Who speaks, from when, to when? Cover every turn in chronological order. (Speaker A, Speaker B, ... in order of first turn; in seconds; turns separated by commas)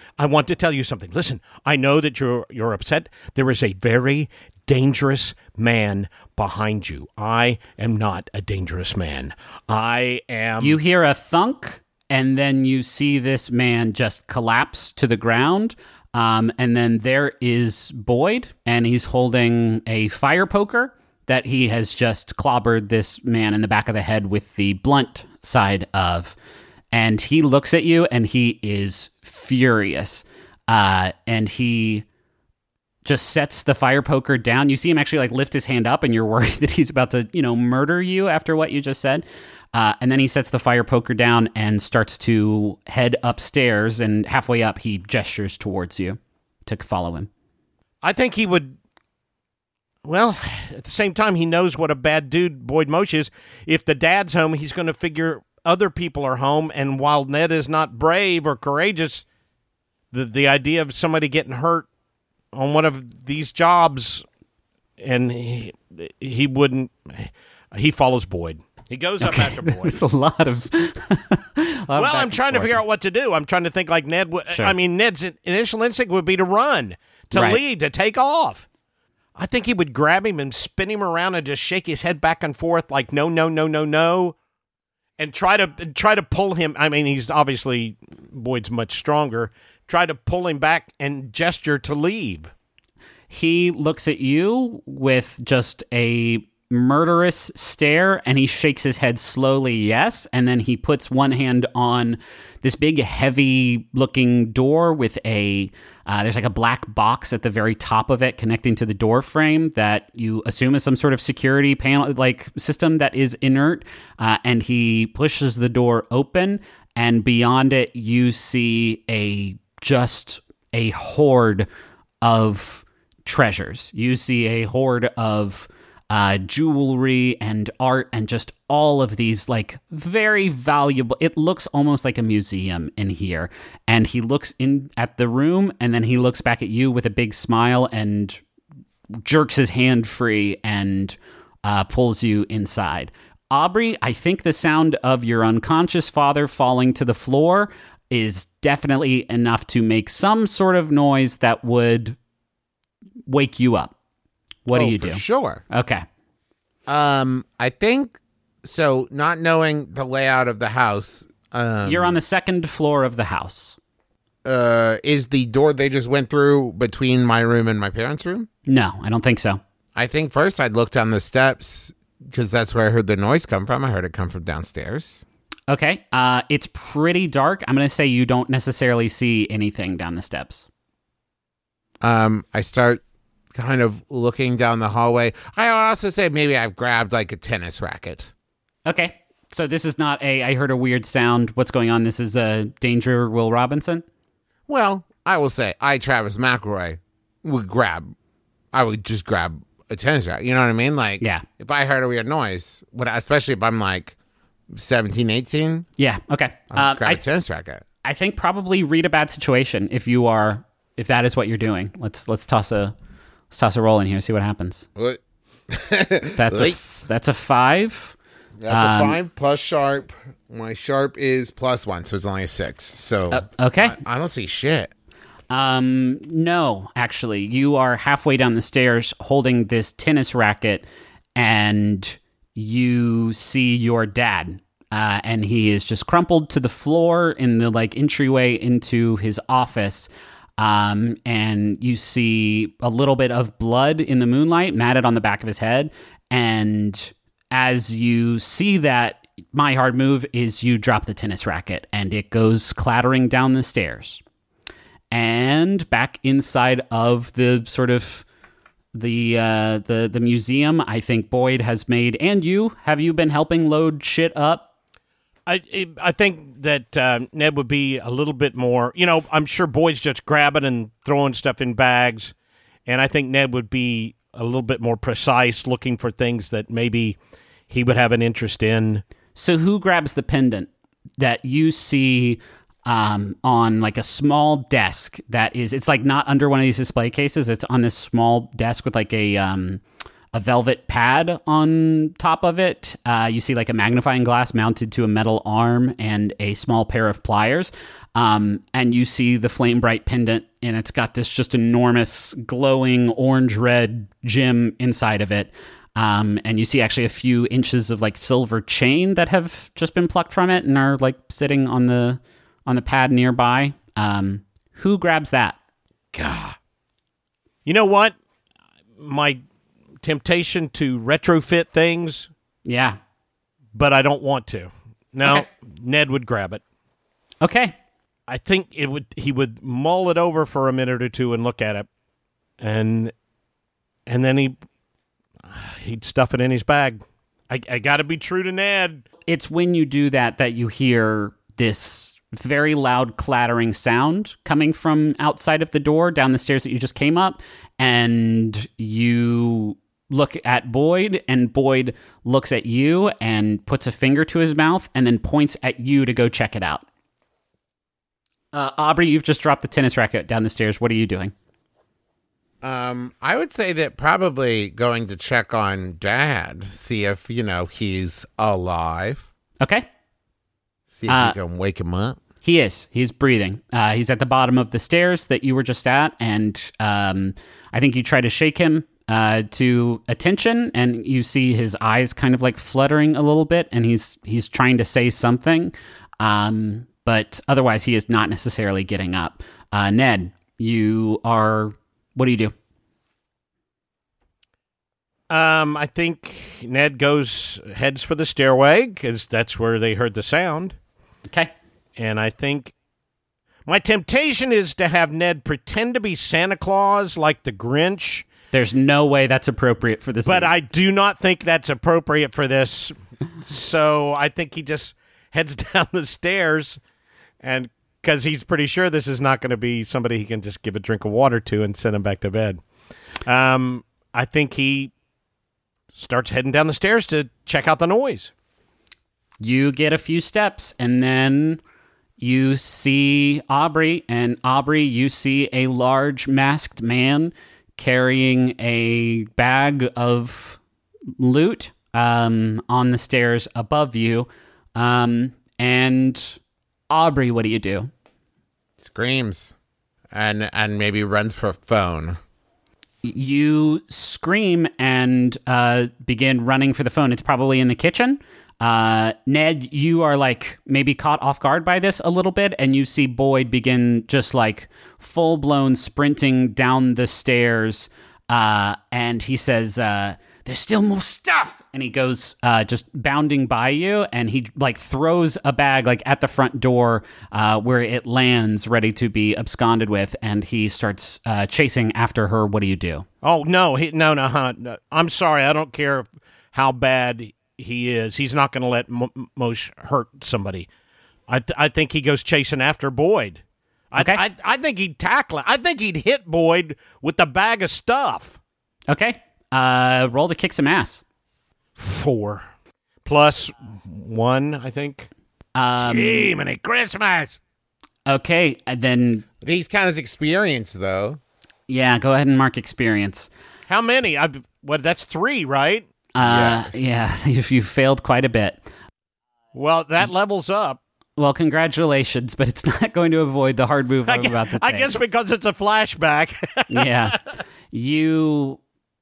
Speaker A: 0.2-10.8, Speaker B: 10.6-26.4, Speaker B: 26.9-32.0, Speaker B: 33.0-47.3, Speaker A: 48.0-48.8, Speaker A: 50.0-59.2, Speaker A: 60.1-61.9, Speaker A: 62.5-64.2, Speaker A: 65.0-70.0, Speaker B: 69.2-72.8, Speaker A: 72.0-78.7, Speaker B: 74.5-74.7, Speaker B: 77.3-77.6, Speaker A: 79.4-84.4, Speaker A: 85.2-92.5, Speaker B: 93.3-121.7, Speaker B: 122.2-138.4, Speaker B: 139.2-152.2, Speaker B: 153.3-153.9, Speaker B: 154.7-156.1, Speaker C: 154.7-155.6, Speaker C: 156.9-162.2, Speaker B: 161.8-163.8, Speaker C: 164.4-168.5, Speaker B: 168.7-169.6, Speaker C: 169.9-175.2, Speaker B: 175.7-180.7, Speaker C: 182.0-183.0, Speaker C: 183.5-188.3, Speaker B: 188.9-194.0, Speaker C: 194.7-198.1, Speaker C: 198.7-204.2, Speaker B: 201.2-201.4, Speaker C: 204.7-205.9, Speaker B: 206.0-207.2, Speaker C: 206.7-207.8, Speaker B: 208.0-212.9, Speaker B: 213.5-214.9, Speaker C: 214.9-216.8, Speaker B: 216.4-218.2, Speaker C: 218.6-224.9, Speaker B: 218.7-219.2, Speaker B: 223.3-224.0, Speaker B: 225.5-254.2, Speaker B: 255.1-258.3, Speaker B: 258.9-264.7, Speaker A: 265.4-272.4, Speaker A: 272.9-277.2, Speaker A: 277.7-279.0, Speaker B: 279.4-289.8, Speaker B: 290.3-315.6, Speaker C: 316.1-316.6, Speaker A: 317.7-318.1, Speaker A: 319.0-319.4, Speaker A: 320.0-322.3, Speaker B: 322.6-323.0, Speaker A: 323.7-326.6, Speaker B: 327.4-327.7, Speaker A: 328.3-331.9, Speaker A: 332.6-333.1, Speaker A: 334.1-334.6, Speaker A: 335.4-339.1, Speaker B: 339.3-356.8, Speaker B: 358.5-361.3, Speaker C: 362.6-369.3, Speaker C: 370.9-372.2, Speaker B: 371.1-371.4, Speaker B: 372.4-392.5, Speaker A: 395.3-400.8, Speaker A: 402.0-402.7, Speaker A: 403.7-408.3, Speaker B: 408.5-410.5, Speaker A: 410.3-416.8, Speaker A: 417.4-422.6, Speaker A: 423.3-424.9, Speaker A: 425.9-428.3, Speaker B: 429.4-431.6, Speaker B: 432.2-440.6, Speaker B: 441.2-446.4, Speaker B: 446.9-447.9, Speaker C: 448.8-449.6, Speaker C: 450.1-452.2, Speaker B: 453.0-483.1, Speaker A: 483.2-490.7, Speaker A: 491.3-498.4, Speaker B: 498.9-501.0, Speaker A: 501.8-502.5, Speaker A: 503.1-505.1, Speaker B: 505.6-506.3, Speaker A: 505.8-507.4, Speaker B: 508.1-509.2, Speaker C: 509.4-511.2, Speaker B: 511.7-513.3, Speaker A: 513.7-515.9, Speaker B: 516.2-518.7, Speaker C: 516.2-516.8, Speaker A: 519.5-520.8, Speaker B: 521.2-525.0, Speaker A: 524.1-527.2, Speaker B: 526.7-527.2, Speaker B: 527.7-528.6